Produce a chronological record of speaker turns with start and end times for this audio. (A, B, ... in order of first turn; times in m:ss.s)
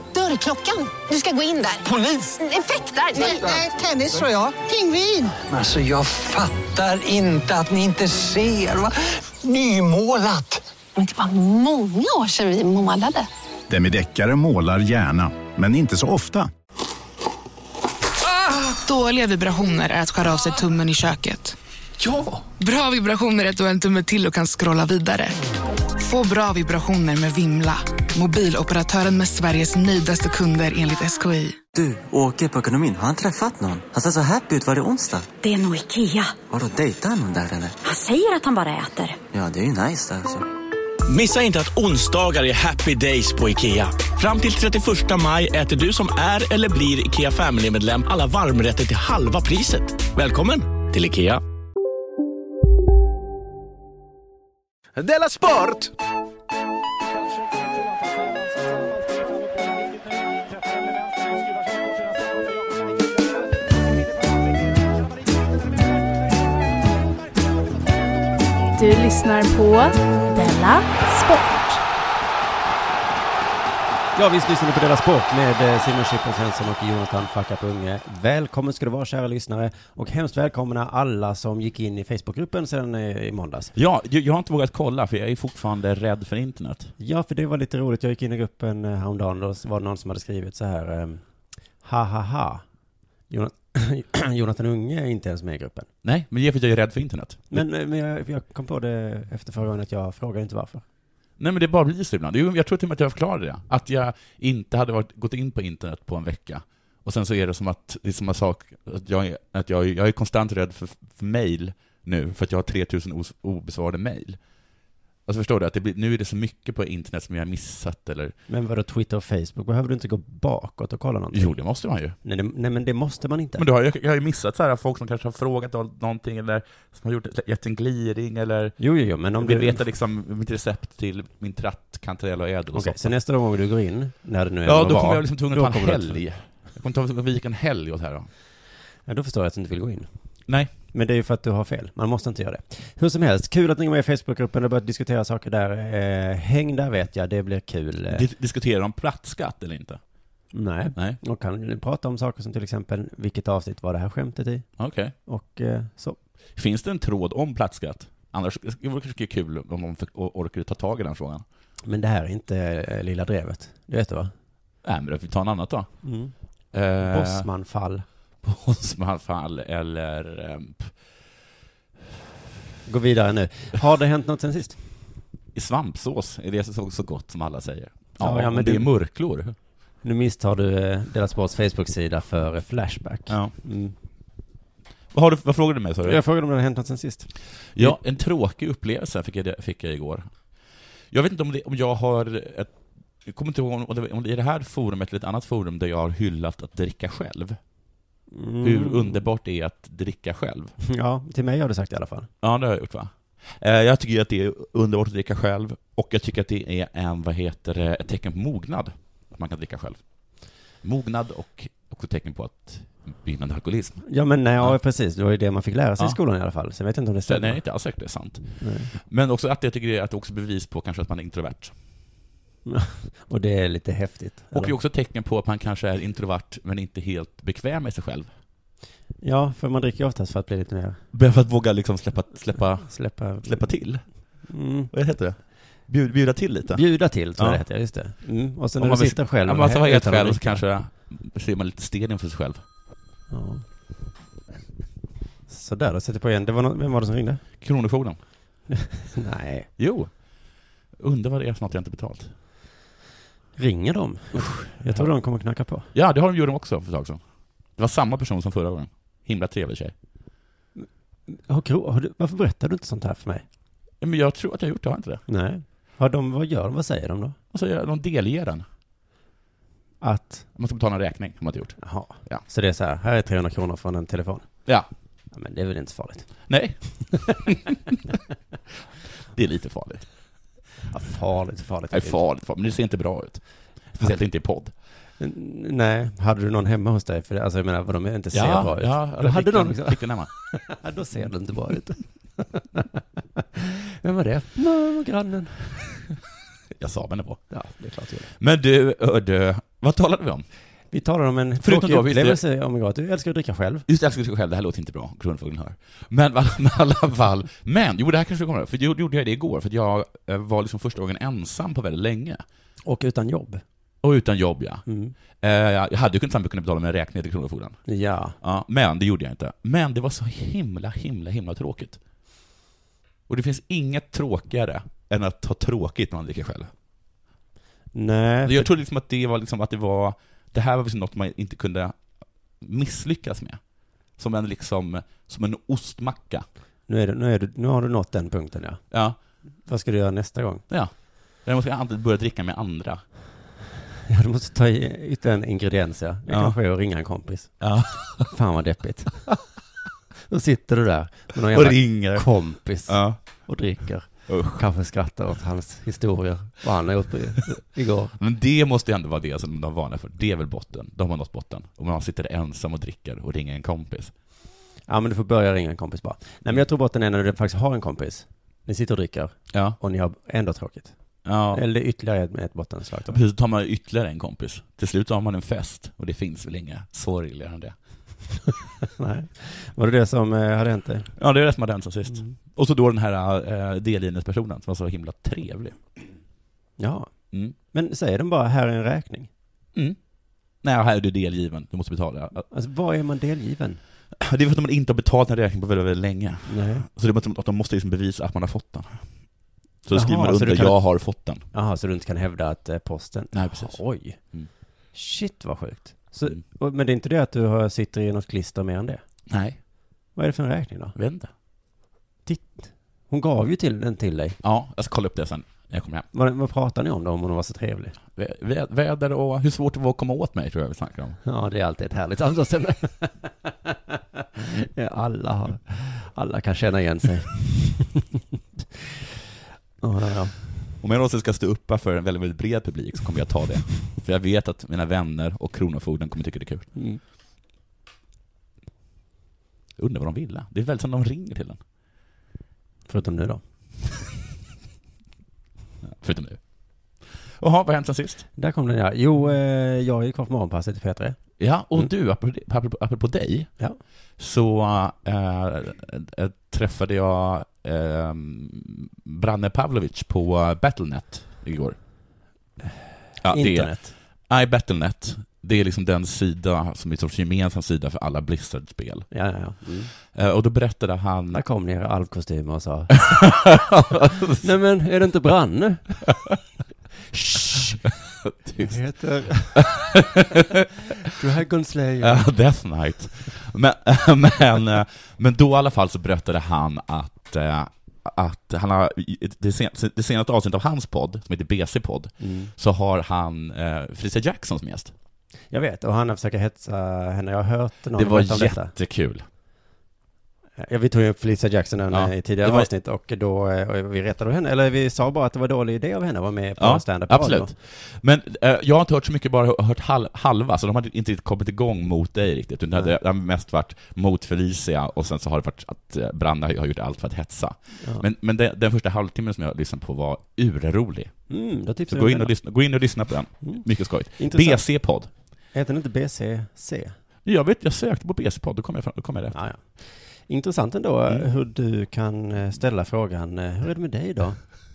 0:00.1-0:05.0 A
0:01.8-0:02.4 B
0:03.0-0:10.6 B
0:11.0-0:13.3 A
0:13.7-0:16.5 C
0:18.7-0:21.6 D
0:22.6-0:25.3 D
0:26.0-0:31.6 D
0:31.8-0:35.3 E
0:35.4-0:36.4 F
0:36.4-0:37.8 E
0:37.8-0:39.2 F
0:39.3-0:40.4 E
0:41.1-0:51.4 G
1:08.7-1:11.8 H
1:14.2-1:23.7 I
1:23.8-1:26.9 J
1:27.0-1:31.2 I
1:31.8-1:32.6 I
1:33.3-1:35.9 I
1:36.0-1:37.6 J
1:37.5-1:40.8 I
1:41.4-1:54.4 J
1:55.3-1:58.4 J
1:58.5-2:01.6 I
2:01.3-2:02.2 J
2:02.2-2:03.6 I
2:03.6-2:08.8 J
2:08.8-2:09.8 I
2:09.4-2:13.1 J
2:12.7-2:16.2 I
2:14.6-2:18.3 J
2:19.1-2:20.1 I
2:20.9-2:28.3 I
2:28.1-2:30.0 J
2:30.5-2:34.7 I
2:34.8-2:35.1 J
2:35.3-2:36.2 I
2:36.6-2:41.4 J
2:41.8-2:44.3 I
2:44.8-2:45.9 J
2:46.0-2:46.3 I
2:46.7-2:47.5 J
2:47.1-2:48.0 I
2:48.4-2:50.9 J
2:52.9-2:54.9 I
2:55.6-2:59.6 J
2:58.2-2:58.9 I
3:00.0-3:04.0 I
3:03.3-3:03.6 J
3:05.1-3:06.2 J
3:06.0-3:08.0 I
3:07.8-3:10.3 J
3:11.1-3:12.7 J
3:13.2-3:17.6 J
3:18.3-3:19.2 I
3:18.6-3:20.8 J
3:20.8-3:22.3 I
3:22.4-3:30.0 J
3:30.8-3:34.0 J
3:34.1-3:37.6 I
3:37.3-3:41.7 J
3:38.6-3:38.9 I
3:42.7-3:44.8 I
3:44.5-3:48.3 J
3:49.2-3:51.0 I
3:51.1-3:54.1 J
3:52.8-3:53.8 I
3:54.5-3:54.9 I
3:54.9-3:56.8 J
3:56.7-4:00.6 I
3:58.8-4:02.6 J
4:03.3-4:03.6 I
4:05.5-4:07.4 I
4:07.6-4:08.2 J
4:08.7-4:09.7 I
4:09.8-4:10.1 J
4:11.0-4:12.3 J
4:13.6-4:15.9 I
4:14.3-4:15.1 J
4:15.9-4:17.2 J
4:17.8-4:20.0 J
4:20.8-4:23.4 I
4:24.0-4:25.2 J
4:25.3-4:27.4 I
4:27.5-4:28.6 J
4:30.0-4:30.5 I
4:30.6-4:32.4 J
4:31.8-4:34.5 I
4:35.3-4:36.3 I
4:36.5-4:37.6 J
4:37.1-4:37.6 I
4:39.3-4:40.1 J
4:40.9-4:42.2 I
4:41.9-4:43.4 J
4:44.0-4:44.7 J
4:45.2-4:52.9 I
4:48.3-4:50.3 J
4:53.6-4:56.1 I
4:56.8-4:57.4 J
4:57.5-4:58.3 I
4:58.3-5:00.5 J
5:00.9-5:03.8 I
5:01.6-5:02.4 J
5:03.9-5:12.4 J
5:12.8-5:13.6 I
5:14.0-5:14.8 J
5:14.9-5:15.1 I
5:15.4-5:17.8 J
5:17.9-5:18.4 I
5:18.4-5:22.0 J
5:23.3-5:26.7 J
5:27.9-5:28.7 I
5:28.4-5:32.0 J
5:32.6-5:33.6 J
5:34.2-5:36.4 J
5:36.9-5:38.8 I
5:38.9-5:39.2 J
5:39.7-5:40.6 I
5:40.7-5:43.0 J
5:44.1-5:47.7 I
5:46.3-5:46.6 J
5:47.6-5:48.3 J
5:48.2-5:49.4 I
5:50.3-5:58.1 I
5:51.5-5:53.2 J
5:54.3-5:54.6 J
5:58.2-6:04.1 J
6:04.9-6:11.0 I
6:09.5-6:09.8 J
6:11.2-6:11.6 J
6:11.5-6:13.2 I
6:13.1-6:17.8 J
6:18.9-6:21.1 I
6:21.2-6:25.8 J
6:26.8-6:27.1 I
6:27.7-6:29.3 I
6:30.6-6:32.5 J
6:32.5-6:33.8 I
6:34.2-6:39.0 J
6:36.5-6:36.9 I
6:39.8-6:41.4 J
6:39.9-6:41.0 I
6:41.5-6:44.2 I
6:43.3-6:44.5 J
6:44.9-6:49.0 I
6:49.3-6:49.6 J
6:50.2-6:51.0 I
6:51.0-6:51.3 J
6:52.3-6:54.4 I
6:54.4-6:56.1 J
6:56.1-6:58.0 I
6:58.2-7:01.2 J
7:01.2-7:03.7 I
7:04.4-7:08.0 I
7:09.8-7:10.5 I
7:10.8-7:16.7 J
7:16.8-7:17.0 I
7:19.8-7:21.6 J
7:22.9-7:23.4 I
7:25.8-7:26.4 J
7:27.4-7:28.3 J
7:28.4-7:31.2 I
7:31.4-7:33.5 J
7:34.2-7:41.8 J
7:43.2-7:43.8 J
7:43.3-7:43.9 I
7:44.3-7:49.1 J
7:49.1-7:49.9 I
7:50.1-7:51.4 J
7:51.3-7:53.6 I
7:53.1-7:54.4 J
7:54.4-7:56.1 I
7:57.1-7:57.9 I
7:58.2-7:58.8 J
7:58.6-7:59.6 I
7:59.6-8:00.4 J
8:01.0-8:02.3 I
8:02.0-8:14.9 J
8:12.2-8:12.5 I
8:15.5-8:18.7 I
8:18.0-8:19.2 J
8:20.6-8:27.5 I
8:21.9-8:22.7 J
8:26.6-8:41.2 J
8:41.3-8:42.3 I
8:41.9-8:45.1 J
8:43.4-8:44.7 I
8:45.5-8:47.0 I
8:47.2-8:49.4 J
8:49.3-8:54.5 I